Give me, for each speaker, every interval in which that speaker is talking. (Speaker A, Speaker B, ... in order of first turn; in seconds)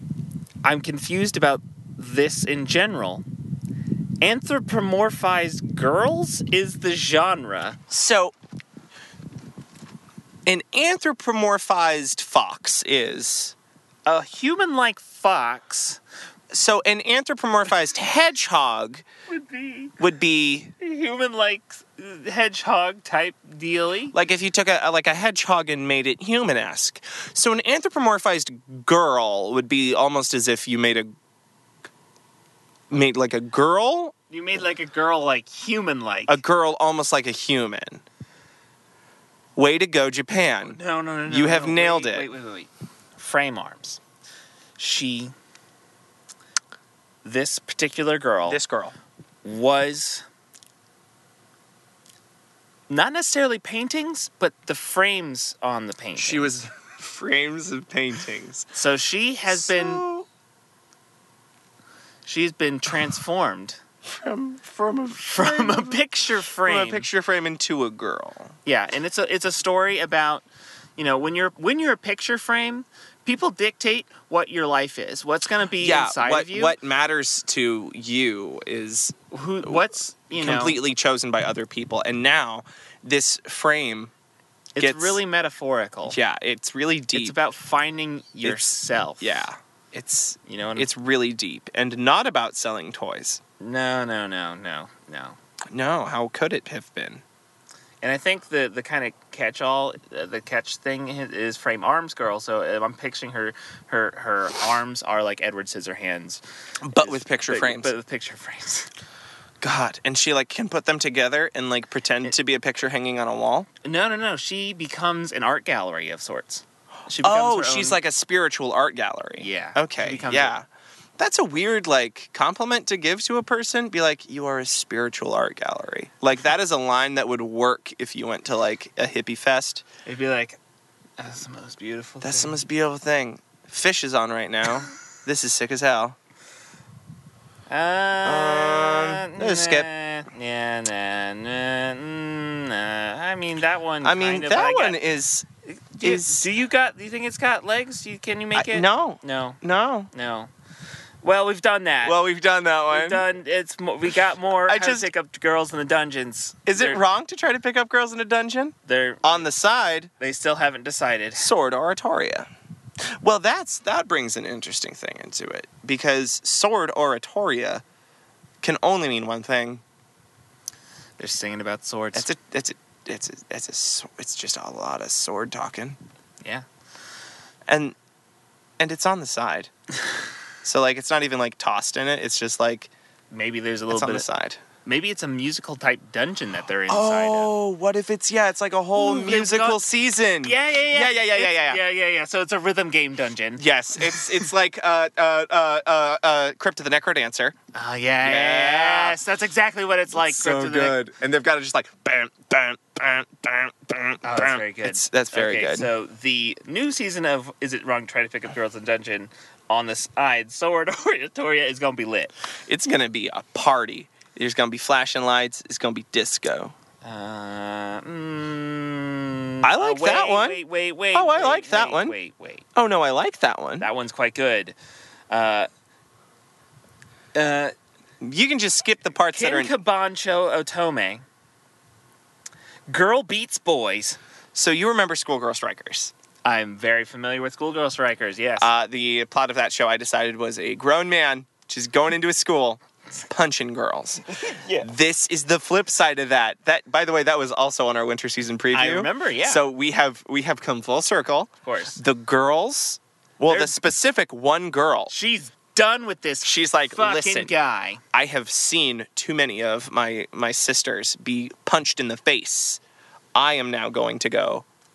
Speaker A: 0.6-3.2, 4.2-7.8, 14.1-16.0, 19.3-19.9, 20.8-24.1, 34.3-36.4, 40.6-44.0, 44.8-45.3, 47.2-48.6, 49.4-50.2, 52.9-56.6, 58.7-60.0, 62.3-63.8, 65.2-67.1, 68.7-70.4, 71.0-76.8, 79.3-80.8, 84.8-86.2, 87.1-89.5, 90.5-90.9, 93.6-95.4, 98.0-108.9, 113.8-118.0, 119.4-120.6, 130.1-130.6, 131.2-132.6, 137.7-145.0, 145.6-149.6, 150.1-150.5, 151.2-152.2, 152.9-157.0, 158.8-159.5, 160.2-161.5, 171.2-172.3, 183.3-184.3, 184.8-187.5, 188.9-189.8, 190.4-194.5, 197.7-201.0, 204.2-212.3, 217.0-222.6, 223.8-224.8, 225.3-225.7, 227.3-227.7, 229.3-231.2, 232.9-234.2, 236.4-238.7, 244.3-244.9, 248.7-249.6, 251.6-252.0, 253.5-253.8, 255.1-258.0
Speaker B: 7.9-8.3, 10.4-13.6, 16.5-19.1, 20.0-20.7, 24.1-31.1, 32.9-34.1, 36.3-38.0, 39.6-42.3, 48.5-48.9, 56.1-58.7, 59.5-60.3, 64.0-66.0, 66.6-68.6, 75.8-79.8, 80.4-84.1, 84.8-85.2, 86.1-87.4, 88.4-93.4, 95.7-97.2, 106.8-107.9, 109.6-113.7, 117.2-120.7, 121.2-129.8, 132.2-136.2, 138.2-139.9, 144.0-145.5, 146.0-146.4, 148.6-150.1, 152.0-153.2, 154.7-155.1, 156.7-160.1, 161.4-162.5, 163.2-167.8, 168.6-169.8, 172.1-176.0, 177.7-177.9, 178.8-179.7, 180.6-182.9, 183.9-184.6, 186.9-191.8, 193.6-197.6, 198.2-199.2, 200.1-205.9, 212.7-216.7, 219.6-220.6, 221.1-222.1, 222.8-223.9, 228.2-229.8, 234.5-236.1, 238.6-255.1, 256.4-257.5, 258.1-262.8, 263.4-264.6